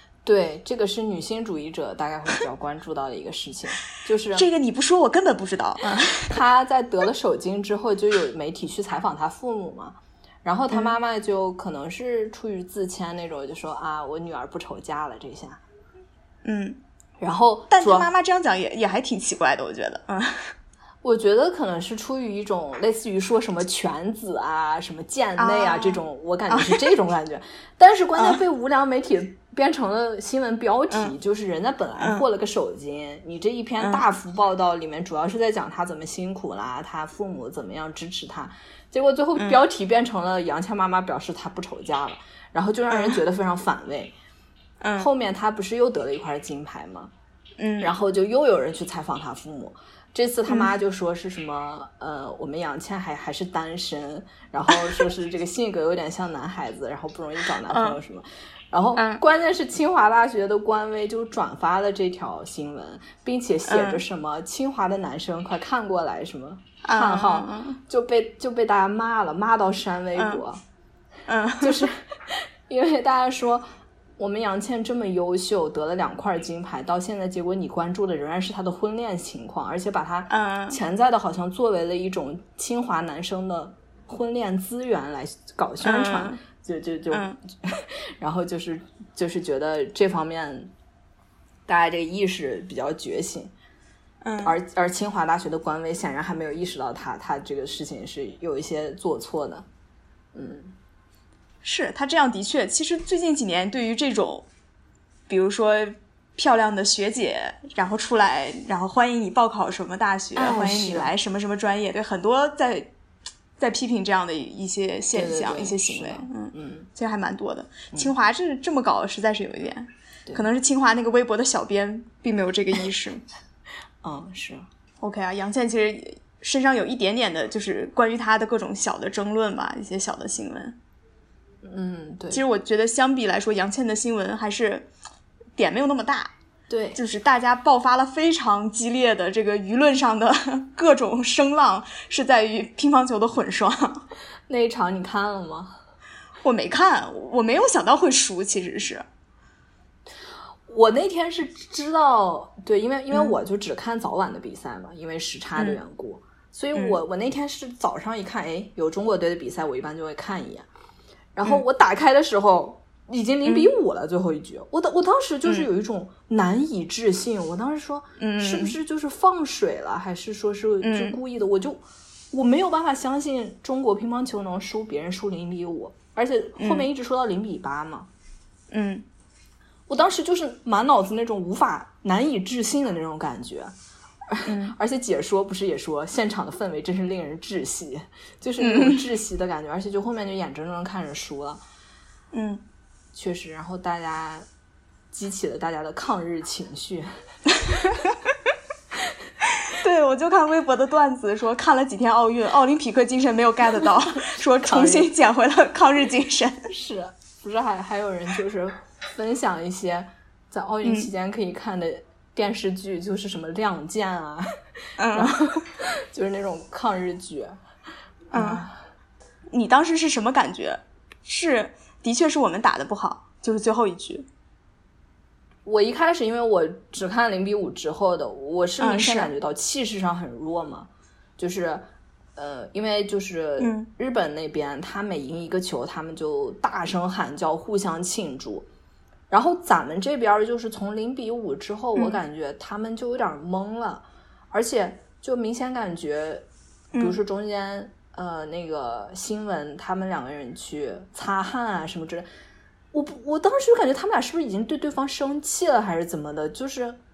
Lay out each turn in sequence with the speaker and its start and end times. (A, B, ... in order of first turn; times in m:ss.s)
0:00.2-0:04.4 A
0:04.3-0:06.3 B
0:06.0-0:15.6 A
0:10.7-0:11.0 B
0:16.4-0:16.8 B
0:17.2-0:18.1 A
0:17.7-0:20.5 B
0:21.0-0:44.1 A
0:25.4-0:26.9 B
0:32.0-0:32.2 B
0:33.8-0:34.0 B
0:39.4-0:39.6 B
0:42.9-0:43.2 B
0:44.8-0:45.1 B
0:45.0-0:47.1 A
0:47.6-0:47.9 B
0:47.8-1:10.6 A
0:50.5-0:50.7 B
0:57.7-0:58.0 B
0:59.0-0:59.2 B
1:03.7-1:04.0 B
1:06.8-1:07.8 B
1:10.2-1:10.4 B
1:11.3-1:11.9 B
1:11.6-1:13.6 A
1:14.2-1:30.7 A
1:20.3-1:20.8 B
1:25.8-1:26.4 B
1:27.1-1:27.4 B
1:31.6-1:33.5 A
1:34.2-1:34.6 B
1:34.4-1:39.7 A
1:40.3-1:40.8 A
1:41.6-1:44.5 B
1:45.3-1:52.9 B
1:50.4-1:51.1 A
1:53.6-2:03.2 B
1:55.1-1:56.9 A
2:04.0-2:04.7 A
2:05.0-2:10.8 B
2:11.6-2:12.4 A
2:12.3-2:14.9 B
2:15.6-2:16.3 B
2:16.7-2:17.0 A
2:16.9-2:24.0 B
2:24.5-2:25.8 A
2:26.4-2:29.0 B
2:30.7-2:40.7 A
2:36.7-2:37.0 B
2:41.4-2:58.1 A
2:43.4-2:43.7 B
2:48.2-2:48.8 B
2:50.8-2:51.2 B
2:56.6-2:56.9 B
2:58.7-2:59.0 B
2:59.9-3:03.7 A
3:04.3-3:11.6 A
3:04.4-3:04.8 B
3:08.6-3:09.0 B
3:12.3-3:12.6 B
3:13.1-3:14.4 A
3:15.1-3:17.1 A
3:17.6-3:18.2 B
3:19.4-3:26.7 B
3:24.2-3:25.1 A
3:26.7-3:34.5 A
3:30.8-3:31.1 B
3:35.0-3:35.6 B
3:35.1-3:37.6 A
3:38.3-3:38.6 B
3:38.3-3:38.8 A
3:39.5-3:44.2 B
3:45.6-3:58.7 A
3:48.8-3:49.3 B
3:53.6-3:53.9 B
3:59.3-4:12.2 A
4:06.9-4:07.2 B
4:12.9-4:17.0 A